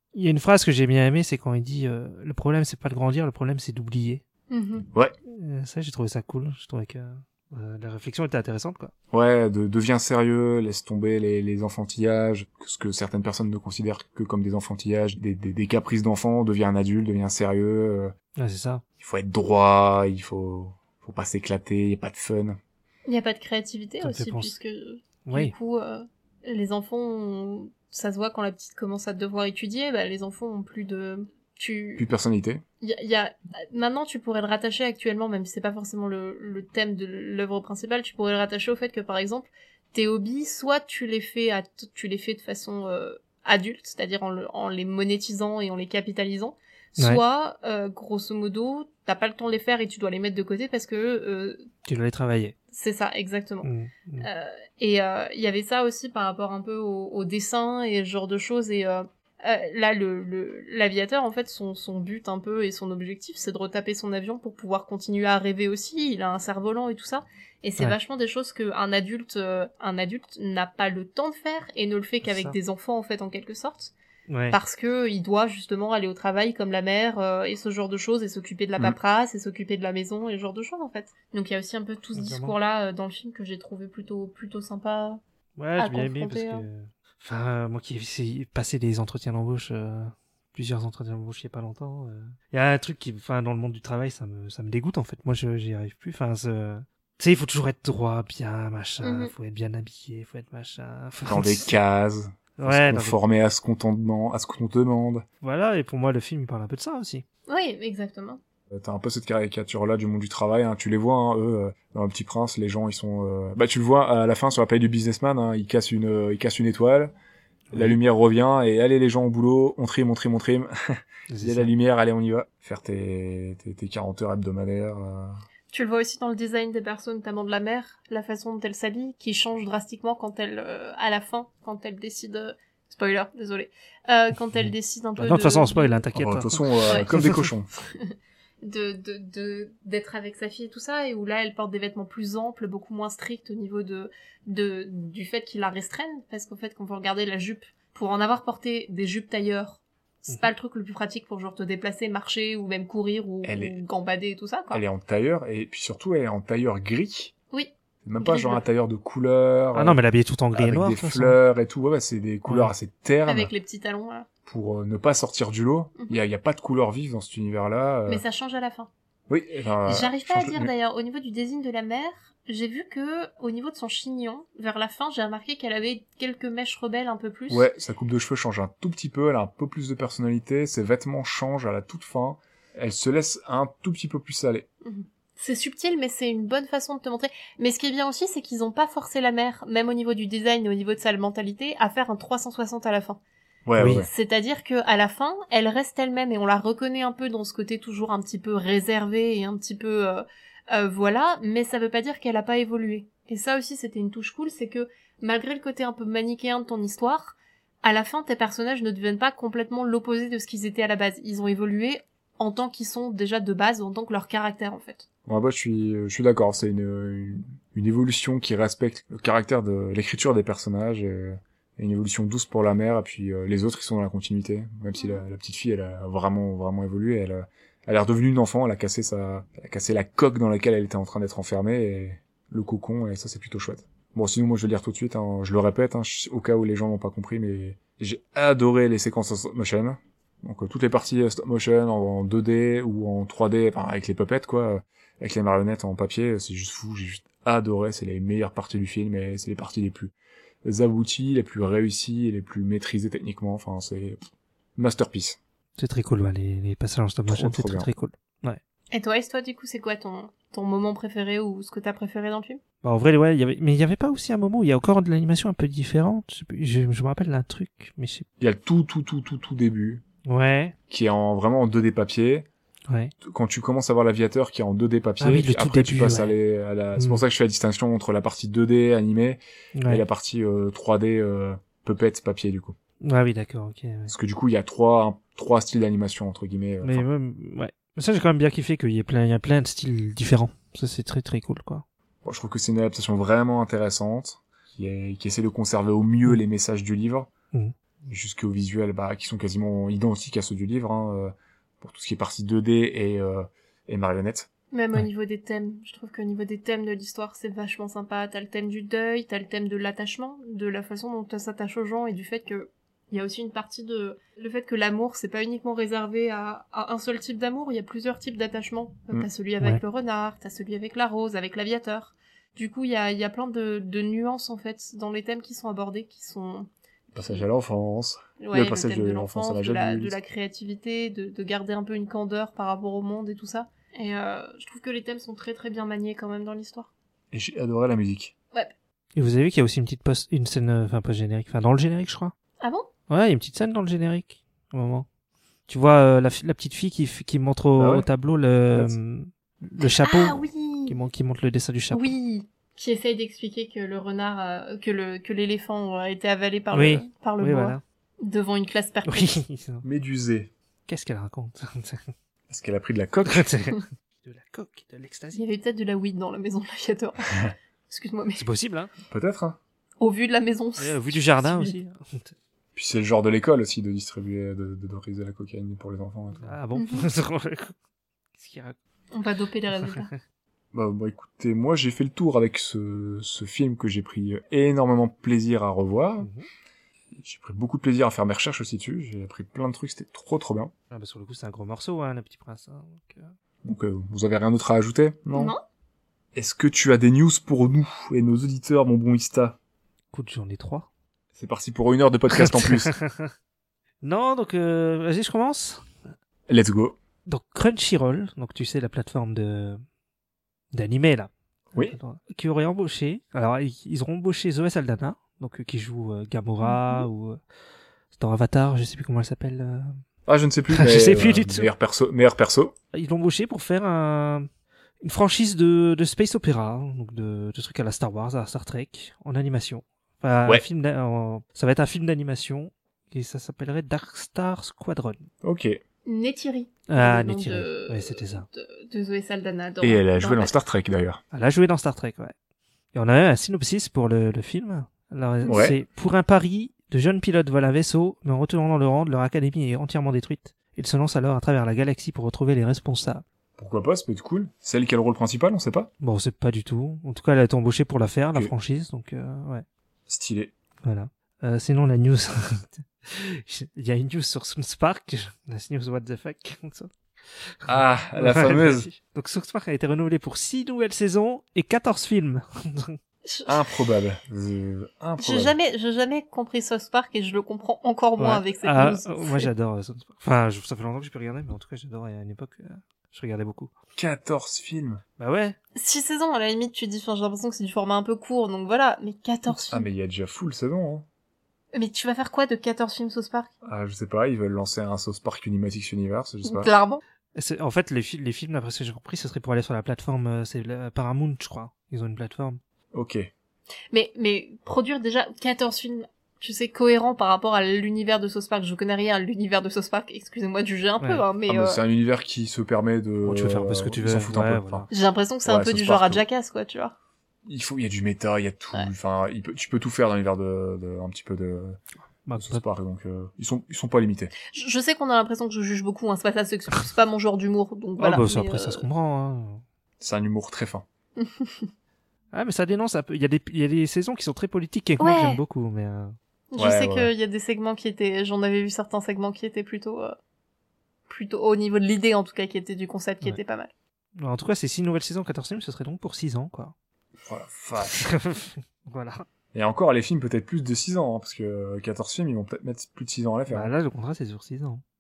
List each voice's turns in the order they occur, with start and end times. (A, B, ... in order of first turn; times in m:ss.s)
0:00.2-0:04.2 A
0:04.5-0:04.9 B
0:05.3-0:08.9 A
0:09.1-0:18.1 C
0:18.4-0:18.8 A
0:19.0-0:22.6 C
0:23.1-0:32.0 B
0:24.0-0:24.5 A
0:25.3-0:25.5 A
0:32.0-0:32.6 C
0:32.8-0:51.6 B
0:51.9-0:52.6 A
0:52.7-0:53.7 B
0:53.6-0:54.3 A
0:54.2-1:13.9 B
1:12.2-1:12.6 A
1:14.3-1:14.6 A
1:14.5-1:25.2 B
1:22.2-1:22.6 A
1:25.6-1:41.7 A
1:25.8-1:26.7 B
1:39.0-1:39.3 B
1:41.3-1:45.2 C
1:42.6-1:43.2 A
1:45.4-1:47.2 A
1:47.5-1:48.4 B
1:48.7-1:57.1 C
1:57.7-1:58.0 A
1:57.7-2:05.3 C
2:01.3-2:01.7 A
2:05.7-2:16.0 B
2:14.6-2:17.5 A
2:16.2-2:17.7 C
2:17.9-2:34.8 B
2:33.4-2:33.8 C
2:34.7-2:37.3 C
2:37.5-2:38.6 B
2:38.0-2:40.0 C
2:39.8-2:41.4 A
2:40.6-2:43.5 C
2:42.5-2:42.7 A
2:43.3-2:44.3 B
2:44.5-2:48.2 C
2:48.1-2:48.9 B
2:49.3-2:50.7 C
2:49.9-2:57.7 B
2:57.5-3:04.7 C
3:04.8-3:13.2 B
3:13.7-3:14.1 C
3:13.8-3:14.0 A
3:13.9-3:35.1 B
3:35.3-4:10.1 C
4:10.6-4:14.2 C
4:14.8-4:15.4 C
4:15.8-4:18.6 A
4:17.3-4:17.9 C
4:18.9-4:22.6 B
4:22.8-4:28.3 A
4:28.4-4:30.0 C
4:30.2-4:30.8 A
4:30.9-4:32.5 C
4:33.2-4:42.8 C
4:35.2-4:36.4 A
4:37.0-4:37.2 A
4:39.8-4:40.0 A
4:43.0-4:44.1 A
4:44.1-4:47.0 C
4:46.8-4:51.8 A
4:52.2-4:57.3 C
4:58.1-5:04.5 C
5:04.7-5:27.4 B
5:27.2-5:30.2 C
5:28.4-5:36.9 B
5:37.3-5:38.3 C
5:39.2-5:42.3 A
5:42.6-5:42.9 B
5:43.1-5:45.1 A
5:45.7-5:52.1 A
5:47.8-5:48.1 C
5:50.0-5:51.0 B
5:51.9-5:59.4 B
5:56.7-5:57.8 A
5:59.1-5:59.8 A
5:59.8-6:00.5 C
6:00.9-6:02.1 A
6:02.5-6:03.5 C
6:03.3-6:05.4 A
6:05.3-6:08.4 B
6:08.4-6:08.9 A
6:09.1-6:09.6 C
6:10.0-6:11.8 B
6:10.8-6:12.4 A
6:12.8-6:16.6 C
6:16.4-6:17.7 A
6:16.8-6:17.1 B
6:18.4-6:18.8 A
6:19.1-6:20.1 B
6:19.9-6:20.2 A
6:20.7-6:26.3 C
6:26.2-6:26.5 A
6:27.2-6:30.7 C
6:30.9-6:33.3 A
6:33.6-6:35.5 C
6:35.3-6:35.6 B
6:36.4-6:39.6 C
6:40.1-6:40.9 A
6:41.4-6:42.9 C
6:42.3-6:43.3 A
6:44.0-6:45.8 A
6:46.5-6:47.0 C
6:47.3-6:49.8 A
6:50.7-6:57.4 A
6:56.6-6:57.1 B
6:58.1-7:00.0 A
7:00.3-7:02.7 C
7:00.7-7:01.7 A
7:02.9-7:04.5 A
7:05.0-7:15.3 A
7:15.4-7:15.8 C
7:16.1-7:20.5 B
7:16.9-7:18.5 A
7:19.8-7:21.2 C
7:21.3-7:22.3 A
7:23.0-7:33.2 A
7:25.5-7:25.8 C
7:33.6-7:35.9 C
7:36.0-7:39.6 A
7:40.1-7:40.5 C
7:40.8-7:53.0 A
7:47.7-7:48.9 C
7:53.2-7:53.6 B
7:53.5-7:55.6 C
7:55.2-7:59.5 B
7:58.2-8:03.7 A
8:04.0-8:05.0 C
8:05.2-8:05.6 A
8:05.8-8:09.9 B
8:09.7-8:11.1 C
8:11.7-8:13.5 B
8:13.6-8:16.7 C
8:16.4-8:17.0 B
8:17.4-8:22.6 A
8:22.9-8:23.3 C
8:23.9-8:31.8 B
8:31.0-8:31.2 A
8:31.5-8:34.9 C
8:33.2-8:34.9 A
8:34.9-8:37.0 B
8:35.5-8:36.2 C
8:37.4-8:41.8 C
8:42.3-8:42.6 A
8:42.4-8:44.3 C
8:44.5-8:48.8 B
8:48.0-8:49.6 A
8:50.0-8:50.8 C
8:51.2-8:51.7 B
8:52.3-8:56.2 A
8:55.0-8:55.4 B
8:56.5-9:00.2 B
8:56.6-8:57.1 C
9:01.1-9:03.7 B
9:04.2-9:06.7 A
9:07.2-9:08.0 C
9:07.8-9:09.3 A
9:09.5-9:13.7 C
9:13.5-9:14.8 A